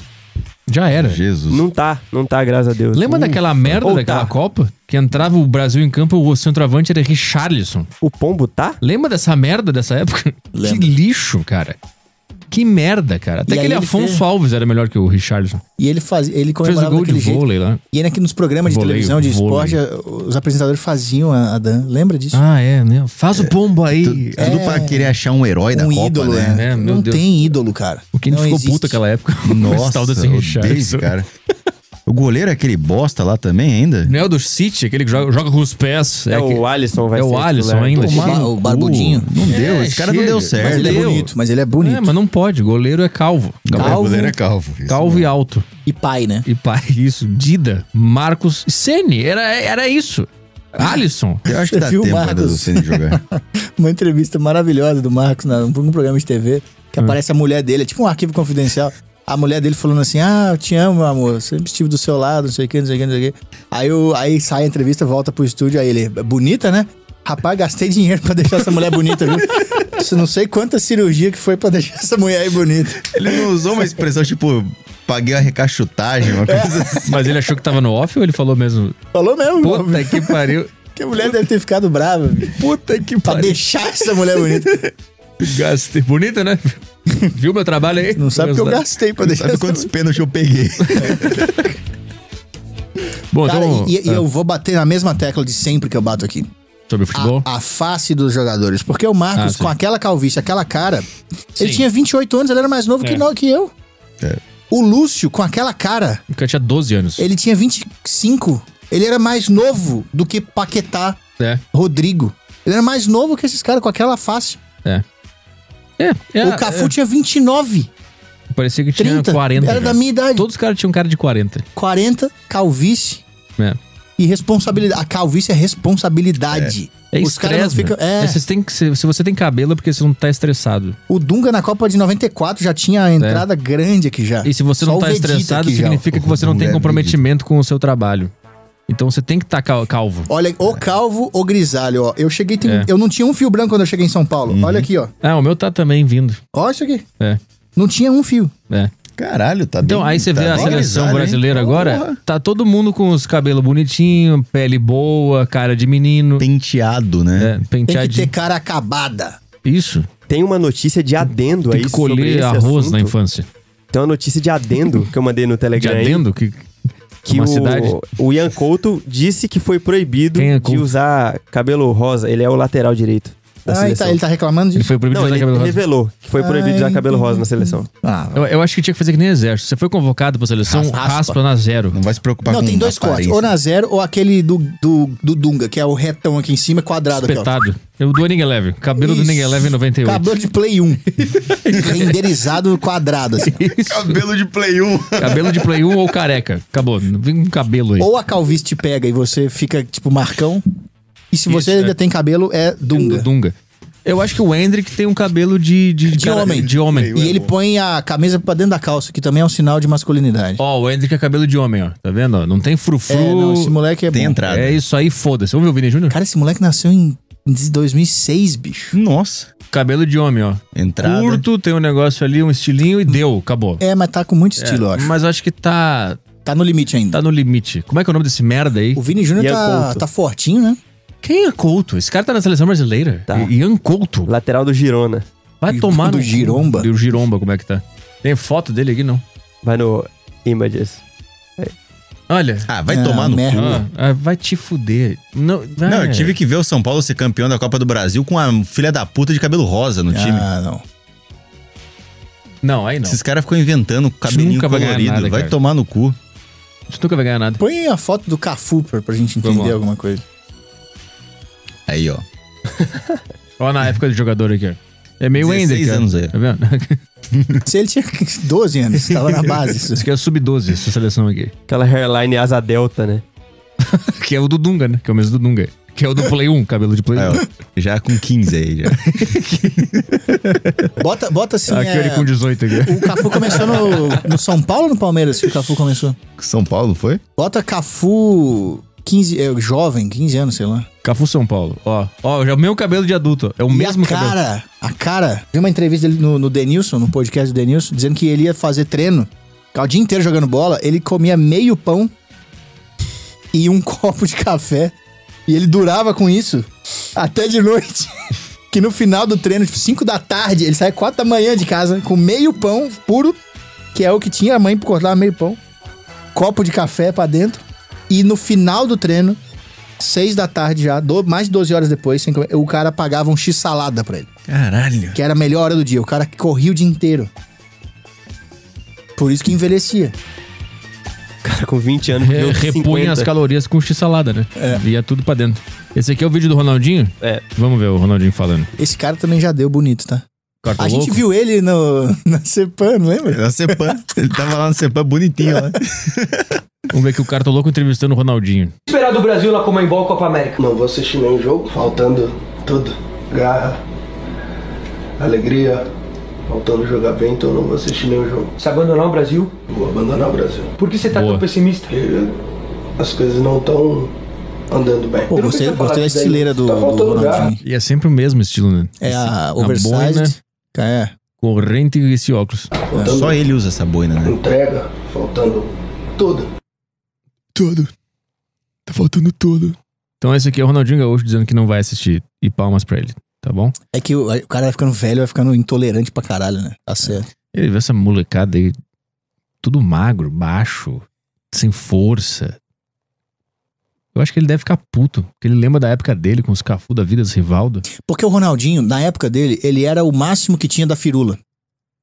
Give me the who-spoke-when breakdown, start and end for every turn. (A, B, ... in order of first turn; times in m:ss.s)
0:00.7-0:01.2 A
0:00.9-0:01.7 B
0:01.5-0:04.3 C
0:02.9-0:07.9 A
0:08.0-0:08.8 C
0:08.8-0:11.8 A
0:10.5-0:10.9 D
0:12.5-0:15.6 A
0:13.5-0:14.2 D
0:15.8-0:22.4 D
0:16.6-0:17.8 A
0:18.7-0:19.8 A
0:22.3-0:24.8 A
0:23.4-0:26.6 B
0:24.4-0:25.1 D
0:25.7-0:29.0 D
0:26.5-0:27.4 A
0:28.1-0:31.1 A
0:29.5-0:31.3 B
0:32.1-0:34.1 B
0:34.1-0:44.1 A
0:36.3-0:38.4 C
0:38.0-0:39.3 D
0:39.3-0:41.1 B
0:40.6-0:42.1 D
0:43.7-0:45.3 B
0:43.8-0:44.4 D
0:44.9-0:45.7 A
0:45.8-0:46.5 D
0:46.4-0:51.5 A
0:51.5-0:53.2 B
0:51.5-1:13.4 D
1:13.1-1:17.1 B
1:16.2-1:17.0 D
1:17.0-1:19.0 A
1:19.1-1:22.6 D
1:19.6-1:21.4 A
1:22.6-1:23.6 A
1:23.2-1:24.9 D
1:25.4-1:28.8 A
1:28.2-1:29.9 D
1:29.2-1:31.5 B
1:31.0-1:31.5 A
1:31.0-1:31.3 D
1:33.3-1:34.2 A
1:33.4-1:36.5 D
1:36.9-1:37.4 A
1:37.1-1:43.7 D
1:39.4-1:39.7 A
1:41.6-1:41.9 A
1:44.7-1:46.2 D
1:46.3-1:47.3 A
1:47.2-1:51.2 D
1:51.7-1:54.6 D
1:56.0-1:56.9 A
1:56.4-1:57.9 D
1:58.5-2:01.7 A
1:59.0-2:00.5 D
2:01.8-2:03.2 D
2:04.2-2:08.4 D
2:07.1-2:11.0 A
2:11.1-2:16.1 D
2:13.2-2:13.5 A
2:14.4-2:18.3 A
2:16.1-2:17.2 B
2:18.9-2:20.3 A
2:20.3-2:25.1 D
2:22.6-2:22.9 A
2:24.5-2:24.9 B
2:25.2-2:26.4 A
2:26.5-2:27.0 D
2:27.8-2:28.5 D
2:29.2-2:32.2 B
2:29.8-2:36.4 A
2:30.5-2:30.9 D
2:36.4-2:37.6 B
2:37.4-2:38.3 A
2:37.9-2:39.4 D
2:39.6-2:40.1 A
2:40.3-2:43.1 C
2:41.7-2:43.5 A
2:43.9-2:46.2 C
2:45.8-2:46.7 A
2:47.2-2:54.2 C
2:47.3-2:48.0 A
2:50.4-2:50.9 A
2:53.7-2:54.9 D
2:54.8-2:55.8 A
2:55.1-2:57.9 C
2:56.4-2:58.5 D
2:58.4-3:02.0 A
3:00.7-3:01.0 B
3:00.9-3:01.4 D
3:01.9-3:03.4 B
3:02.5-3:07.6 D
3:07.2-3:10.3 A
3:09.0-3:13.6 D
3:11.2-3:12.2 A
3:13.4-3:14.2 A
3:13.9-3:15.8 B
3:15.2-3:18.1 A
3:18.0-3:20.6 D
3:21.3-3:23.3 D
3:21.5-3:22.0 A
3:22.9-3:23.5 A
3:24.0-3:27.2 A
3:26.1-3:27.5 B
3:26.1-3:30.6 D
3:30.6-3:33.8 A
3:33.1-3:34.4 D
3:34.1-3:34.8 B
3:34.5-3:36.2 A
3:36.1-3:39.0 D
3:38.9-3:39.5 B
3:39.7-3:43.8 A
3:40.8-3:41.4 B
3:43.8-3:45.1 D
3:44.6-3:46.2 A
3:46.4-3:47.2 D
3:47.1-3:49.0 A
3:49.0-3:50.8 D
3:49.4-3:50.0 C
3:51.2-3:54.3 A
3:54.3-3:55.3 C
3:55.6-3:59.2 A
3:55.7-3:56.9 D
3:59.6-4:01.0 C
4:02.3-4:02.7 A
4:02.7-4:03.8 B
4:02.9-4:03.8 D
4:03.5-4:06.4 A
4:05.8-4:10.5 B
4:10.1-4:10.8 D
4:12.6-4:13.2 A
4:13.0-4:16.2 B
4:14.3-4:15.6 A
4:16.9-4:17.6 A
4:17.6-4:20.2 D
4:19.4-4:19.8 A
4:21.9-4:22.2 B
4:23.6-4:27.0 A
4:25.4-4:26.3 B
4:27.3-4:27.6 B
4:27.6-4:30.1 D
4:29.0-4:31.5 A
4:31.7-4:33.2 C
4:33.8-4:37.4 A
4:37.2-4:40.2 B
4:39.0-4:40.9 A
4:41.0-4:46.2 D
4:41.7-4:44.3 A
4:46.4-4:47.2 B
4:47.4-4:50.9 D
4:51.0-4:54.4 A
4:53.7-5:02.1 D
5:03.5-5:04.9 D
5:05.5-5:08.1 D
5:08.7-5:13.4 D
5:13.9-5:15.6 D
5:16.3-5:19.4 D
5:20.0-5:24.3 D
5:24.5-5:25.2 B
5:25.1-5:27.3 D
5:29.2-5:30.2 D
5:31.4-5:33.3 C
5:32.2-5:38.7 A
5:34.6-5:34.8 D
5:38.8-5:40.2 D
5:40.6-5:41.2 A
5:40.8-5:44.0 D
5:43.3-5:46.6 B
5:45.5-5:45.8 D
5:46.9-5:48.7 A
5:48.9-5:50.6 E
5:50.6-5:53.8 F
5:55.2-5:55.8 F
5:56.5-5:58.5 F
5:58.6-5:59.5 E
5:59.7-6:00.7 F
6:00.8-6:01.9 E
6:01.1-6:01.5 A
6:01.9-6:02.4 F
6:03.0-6:04.1 F
6:04.7-6:07.5 F
6:05.3-6:07.6 D
6:07.6-6:10.3 A
6:09.0-6:11.1 D
6:11.4-6:12.7 A
6:12.9-6:13.4 F
6:13.0-6:14.4 B
6:14.2-6:16.5 F
6:17.6-6:17.9 A
6:18.9-6:23.8 A
6:23.9-6:27.3 D
6:27.5-6:28.8 A
6:29.6-6:32.6 A
6:34.2-6:37.9 A
6:37.9-6:41.4 D